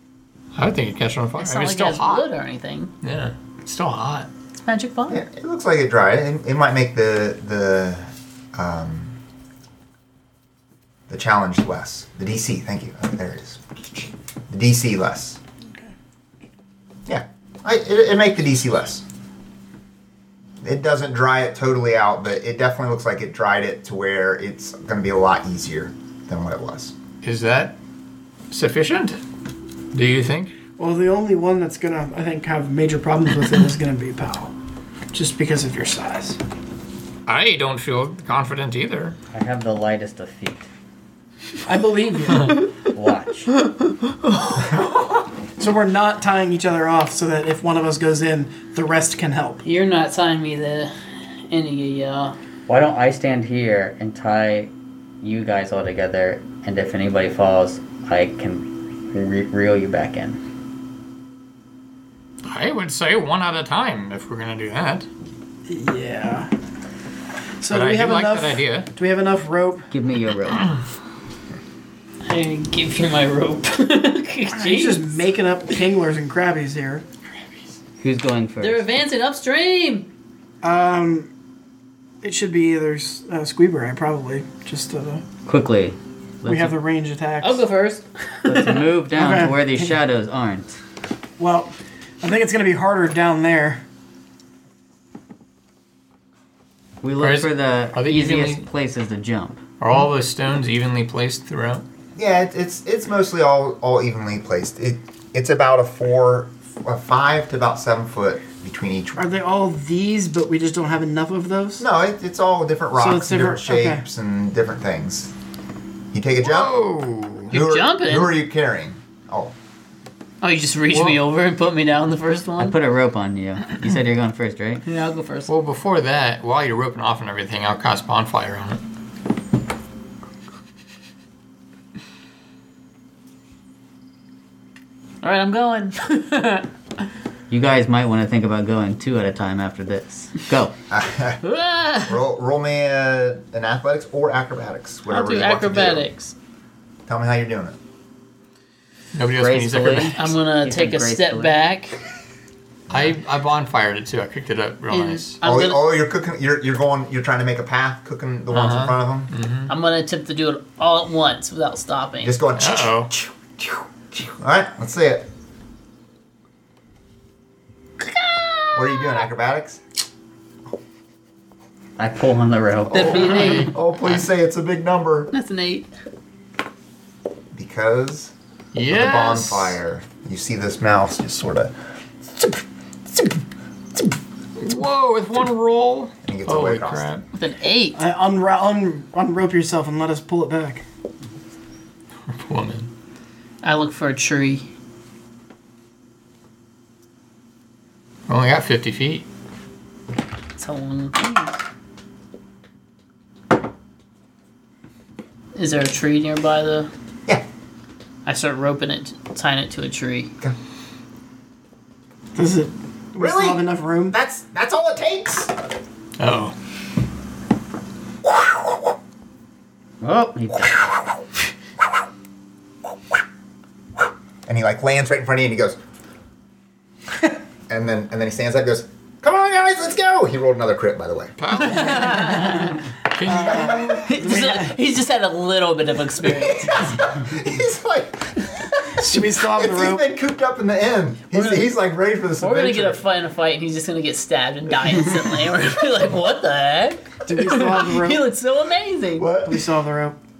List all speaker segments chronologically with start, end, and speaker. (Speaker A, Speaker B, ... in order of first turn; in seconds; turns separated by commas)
Speaker A: 0.5-2.2, Speaker B: 1.4-2.9, Speaker A: 3.0-4.3, Speaker B: 4.6-5.2, Speaker C: 5.1-9.1, Speaker C: 11.1-15.4, Speaker C: 17.1-19.0, Speaker C: 20.6-26.9, Speaker A: 27.2-27.8, Speaker A: 28.5-29.2, Speaker A: 29.9-30.5, Speaker D: 30.8-34.5, Speaker D: 35.1-36.4, Speaker A: 37.3-39.1, Speaker E: 39.3-40.6, Speaker D: 41.6-42.6, Speaker E: 42.8-43.5, Speaker D: 45.6-49.6, Speaker B: 49.6-50.9, Speaker B: 51.5-52.4, Speaker E: 52.7-60.4, Speaker A: 62.5-65.1, Speaker D: 65.7-66.5, Speaker D: 67.6-69.9, Speaker A: 67.7-68.9, Speaker E: 69.9-70.7, Speaker B: 72.2-75.0, Speaker D: 74.5-77.0, Speaker E: 78.0-78.8, Speaker B: 78.6-80.1, Speaker D: 80.6-81.3, Speaker D: 82.2-85.2, Speaker E: 85.4-86.8, Speaker D: 86.4-87.6, Speaker B: 87.4-88.9, Speaker E: 88.4-90.7, Speaker D: 89.1-89.9, Speaker D: 91.4-93.8, Speaker E: 97.0-99.6, Speaker A: 97.2-98.7, Speaker A: 99.8-101.8, Speaker C: 102.2-109.3, Speaker D: 109.2-111.8, Speaker C: 111.8-115.3, Speaker D: 113.0-114.0, Speaker C: 116.1-116.8, Speaker A: 116.4-117.5, Speaker C: 117.5-119.5, Speaker B: 117.5-118.4, Speaker B: 120.4-122.8, Speaker A: 120.9-121.2, Speaker E: 122.6-124.8, Speaker B: 124.8-125.5, Speaker A: 125.5-128.8, Speaker B: 135.2-136.7, Speaker E: 137.5-140.7, Speaker C: 140.9-141.4, Speaker B: 141.4-142.2, Speaker C: 142.0-146.1, Speaker B: 145.1-146.3, Speaker C: 147.1-147.8, Speaker A: 149.1-150.3, Speaker E: 149.3-151.6, Speaker B: 150.1-152.0, Speaker C: 152.9-153.2, Speaker A: 152.9-155.4, Speaker B: 154.9-155.9, Speaker C: 155.4-159.3, Speaker A: 158.5-159.7, Speaker B: 159.7-162.4, Speaker C: 162.2-165.3, Speaker A: 162.6-163.1, Speaker B: 168.0-169.2, Speaker C: 168.7-169.8, Speaker E: 172.0-173.3, Speaker B: 172.9-173.7, Speaker A: 173.1-174.2, Speaker C: 173.2-175.3, Speaker B: 175.3-175.9, Speaker C: 177.5-178.3, Speaker A: 178.7-179.8, Speaker C: 178.9-181.7, Speaker A: 184.6-187.2, Speaker C: 186.2-187.1, Speaker B: 187.3-188.0, Speaker D: 187.9-190.8, Speaker A: 192.3-192.9, Speaker B: 193.6-194.7, Speaker A: 198.3-199.2, Speaker B: 200.6-201.6, Speaker B: 205.5-206.9, Speaker B: 208.2-210.3, Speaker D: 212.3-214.2, Speaker C: 213.2-215.5, Speaker A: 216.2-216.5, Speaker C: 218.2-218.9, Speaker E: 220.0-220.9, Speaker C: 224.4-225.8, Speaker C: 227.7-231.3, Speaker A: 231.4-234.1, Speaker B: 231.8-232.7, Speaker D: 233.2-234.8, Speaker C: 233.4-234.1, Speaker B: 233.9-237.0, Speaker C: 236.2-243.0, Speaker D: 239.0-240.1, Speaker B: 241.3-241.7, Speaker B: 242.3-249.3, Speaker D: 247.2-248.2, Speaker C: 249.2-249.7, Speaker D: 249.4-250.2